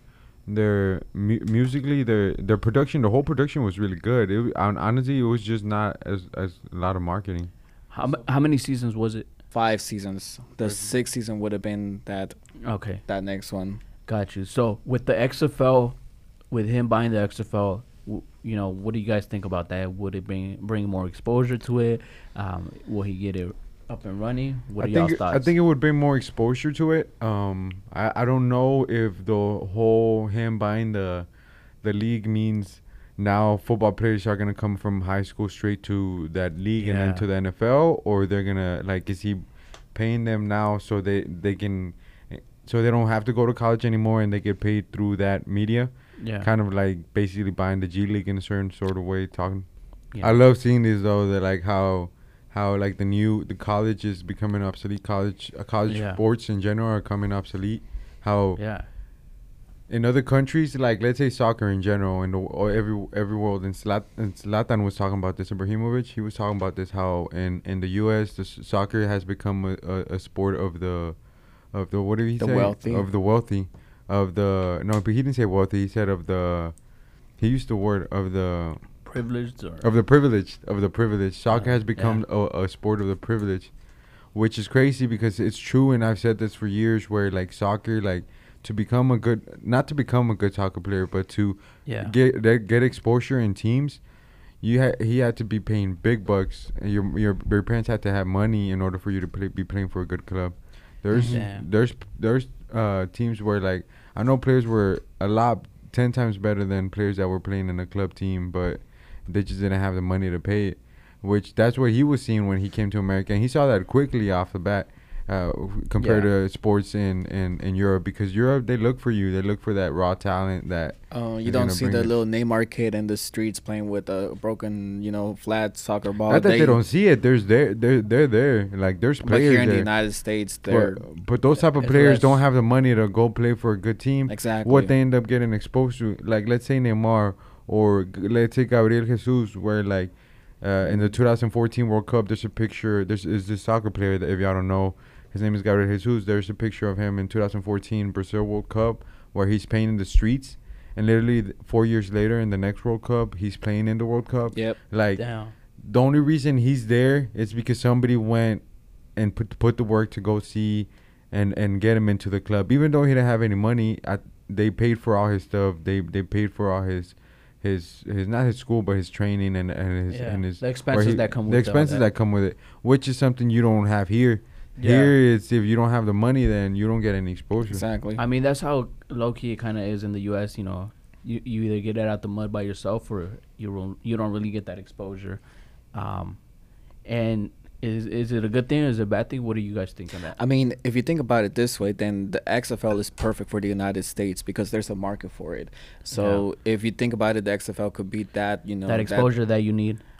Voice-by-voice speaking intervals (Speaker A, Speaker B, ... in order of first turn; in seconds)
Speaker A: 0.5-7.5, 24.8-31.2, 31.8-58.6, 59.9-71.2, 71.7-76.7, 77.4-78.8, 79.8-83.7, 84.3-94.0, 94.6-122.2, 126.3-129.9, 130.7-158.6, 159.2-177.8
Speaker B: 7.9-9.3, 12.6-13.0, 14.1-16.0, 16.5-25.5, 36.8-37.2, 46.2-46.5, 50.1-50.4, 55.9-56.2, 58.5-58.9, 79.0-79.9, 81.5-82.2, 91.8-92.1, 101.2-101.6, 116.0-116.3, 155.2-155.5, 170.1-172.0, 174.8-175.1, 178.2-185.4, 185.9-186.4, 187.1-190.4, 196.1-196.4, 198.9-200.0
Speaker C: 9.5-12.4, 13.1-13.8, 72.4-73.0, 101.1-101.4, 121.1-126.8, 129.2-131.1, 131.6-132.3, 134.3-134.9, 177.7-178.2, 190.3-199.3